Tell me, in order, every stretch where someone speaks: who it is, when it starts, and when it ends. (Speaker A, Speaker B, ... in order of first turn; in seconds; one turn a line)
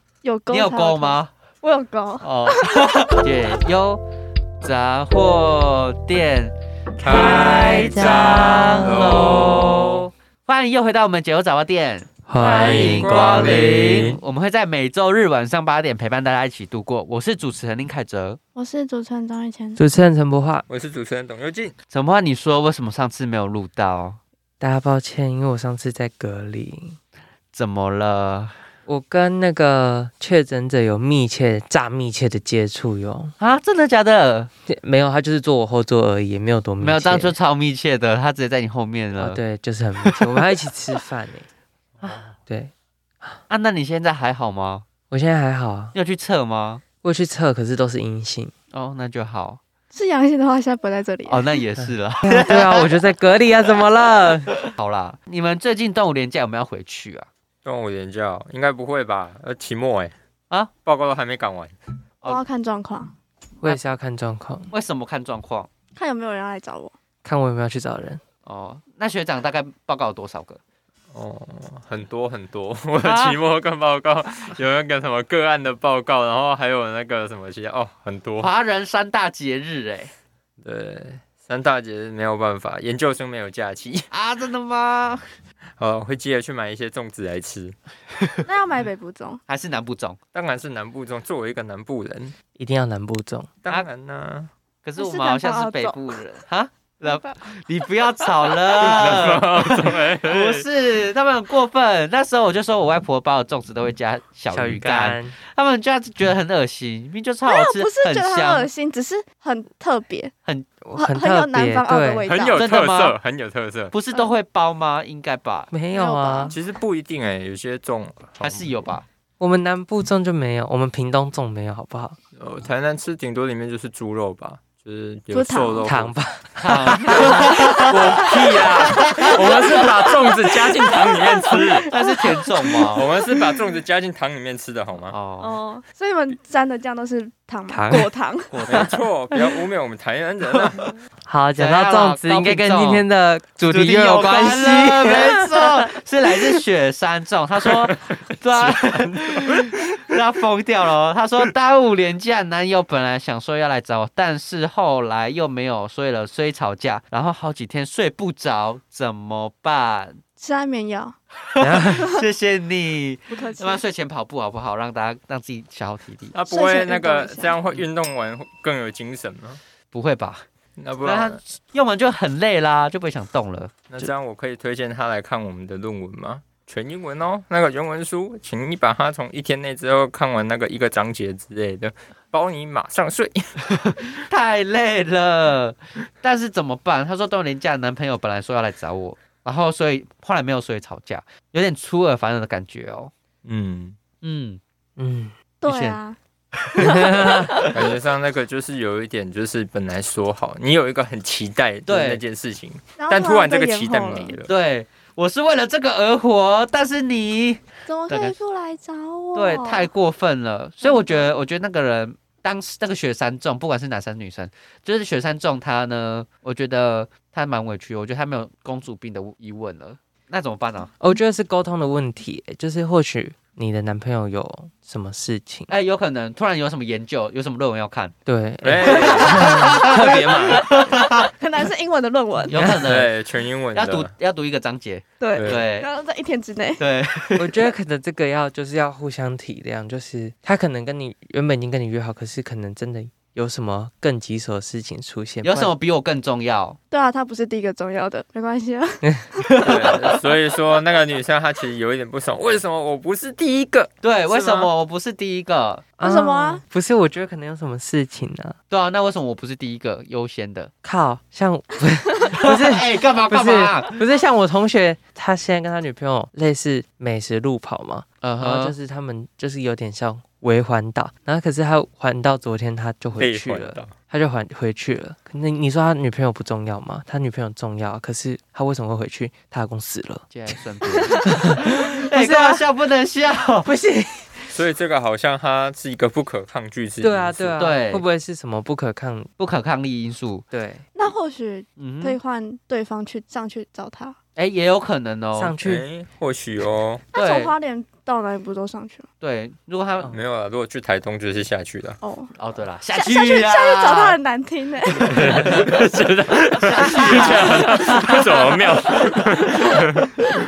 Speaker A: 0.2-3.2
Speaker B: 0.5-1.3
Speaker B: 2.2-4.0
Speaker B: 4.6-18.4
Speaker C: 7.0-10.1
Speaker D: 12.3-14.2
Speaker C: 12.4-14.2
Speaker A: 18.6-19.8
Speaker D: 19.8-20.6
Speaker C: 20.7-21.7
Speaker B: 21.9-24.2
Speaker D: 24.6-27.0
Speaker B: 27.5-28.6
Speaker D: 28.9-33.3
Speaker B: 33.4-34.5
Speaker D: 34.7-37.3
Speaker B: 36.8-39.4
Speaker D: 39.1-41.5
Speaker D: 42.0-43.4
Speaker B: 43.5-44.9
Speaker D: 45.1-45.9
Speaker B: 45.9-46.8
Speaker D: 47.0-48.5
Speaker B: 48.7-49.6
Speaker A: 49.9-51.6
Speaker B: 51.3-52.9
Speaker D: 52.2-54.6
Speaker B: 54.8-57.3
Speaker C: 57.6-60.1
Speaker C: 60.8-61.7
Speaker A: 62.2-63.1
Speaker D: 63.6-64.7
Speaker B: 64.7-65.7
Speaker A: 65.9-66.9
Speaker D: 67.2-68.2
Speaker B: 68.5-70.6
Speaker C: 71.1-78.5
Speaker B: 73.0-73.4
Speaker B: 78.4-80.1
Speaker C: 80.6-84.1
Speaker B: 84.1-85.2
Speaker C: 85.8-87.8
Speaker A: 88.4-89.4
Speaker B: 89.5-90.2
Speaker C: 90.3-92.3
Speaker D: 92.6-93.5
Speaker C: 93.6-94.5
Speaker B: 94.8-108.7
Speaker A: 95.0-96.2
Speaker C: 98.8-100.7
Speaker D: 104.5-105.3
Speaker A: 107.5-110.3
Speaker D: 110.8-112.3
Speaker A: 110.9-112.7
Speaker C: 112.3-113.9
Speaker B: 112.5-113.2
Speaker B: 113.9-115.7
Speaker D: 115.7-116.5
Speaker A: 115.9-116.6
Speaker C: 116.5-118.8
Speaker B: 118.4-119.0
Speaker D: 119.4-122.2
Speaker C: 122.3-126.1
Speaker A: 125.3-125.9
Speaker D: 125.8-127.2
Speaker B: 126.6-129.5
Speaker C: 126.7-131.9
Speaker A: 131.5-132.2
Speaker B: 131.5-133.1
Speaker C: 132.9-135.2
Speaker B: 135.1-135.6
Speaker A: 135.4-138.7
Speaker D: 137.7-138.1
Speaker B: 138.5-138.9
Speaker C: 138.7-140.9
Speaker D: 141.2-145.7
Speaker B: 141.6-143.0
Speaker B: 143.7-160.2
Speaker C: 148.5-150.0
Speaker A: 160.4-161.2
Speaker B: 161.5-166.3
Speaker D: 161.6-162.1
Speaker A: 161.9-162.2
Speaker A: 163.3-163.8
Speaker C: 166.3-169.6
Speaker A: 166.5-167.6
Speaker B: 169.9-170.4
Speaker C: 170.8-171.4
Speaker B: 171.0-174.1
Speaker C: 173.9-183.4
Speaker B: 184.2-193.1
Speaker C: 193.4-194.0
Speaker B: 194.2-194.6
Speaker D: 195.0-195.3
Speaker A: 195.6-196.2
Speaker B: 195.6-196.0
Speaker B: 196.6-197.3
Speaker A: 196.8-197.8
Speaker D: 196.9-197.5
Speaker C: 197.7-204.5
Speaker B: 201.9-202.2
Speaker A: 203.0-204.3
Speaker B: 204.5-208.4
Speaker A: 207.8-209.9
Speaker B: 209.3-220.9
Speaker A: 210.8-211.1
Speaker D: 221.0-225.7
Speaker B: 225.7-228.1
Speaker D: 228.2-230.6
Speaker C: 228.6-230.3
Speaker B: 228.8-229.8
Speaker A: 229.3-232.8
Speaker B: 230.8-231.1
Speaker B: 232.5-233.2
Speaker C: 232.6-234.1
Speaker B: 233.7-235.9
Speaker A: 235.2-236.8
Speaker C: 235.3-235.7
Speaker B: 236.8-237.7
Speaker D: 237.4-245.7
Speaker B: 245.4-246.8
Speaker A: 246.9-249.7
Speaker C: 249.6-254.7
Speaker B: 254.0-255.9
Speaker D: 256.0-258.6
Speaker A: 256.0-256.6
Speaker B: 258.7-260.7
Speaker D: 260.8-280.5
Speaker B: 262.3-263.9
Speaker B: 268.2-268.8
Speaker C: 273.2-273.9
Speaker B: 280.3-283.7
Speaker D: 281.2-282.6
Speaker D: 283.6-284.6
Speaker C: 284.5-287.6
Speaker D: 287.0-289.3
Speaker B: 287.6-288.0
Speaker B: 289.4-290.4
Speaker D: 290.5-290.8
Speaker A: 290.9-294.2
Speaker B: 291.8-292.2
Speaker B: 294.4-295.6
Speaker D: 295.3-295.9
Speaker C: 295.6-297.1
Speaker A: 297.1-299.1
Speaker B: 297.1-297.5
Speaker B: 299.2-300.1
Speaker C: 300.1-302.0
Speaker A: 302.0-302.3
Speaker B: 302.4-304.2
Speaker A: 302.9-305.1
Speaker B: 305.0-305.6
Speaker C: 305.1-310.2
Speaker B: 306.6-308.5
Speaker A: 307.1-307.7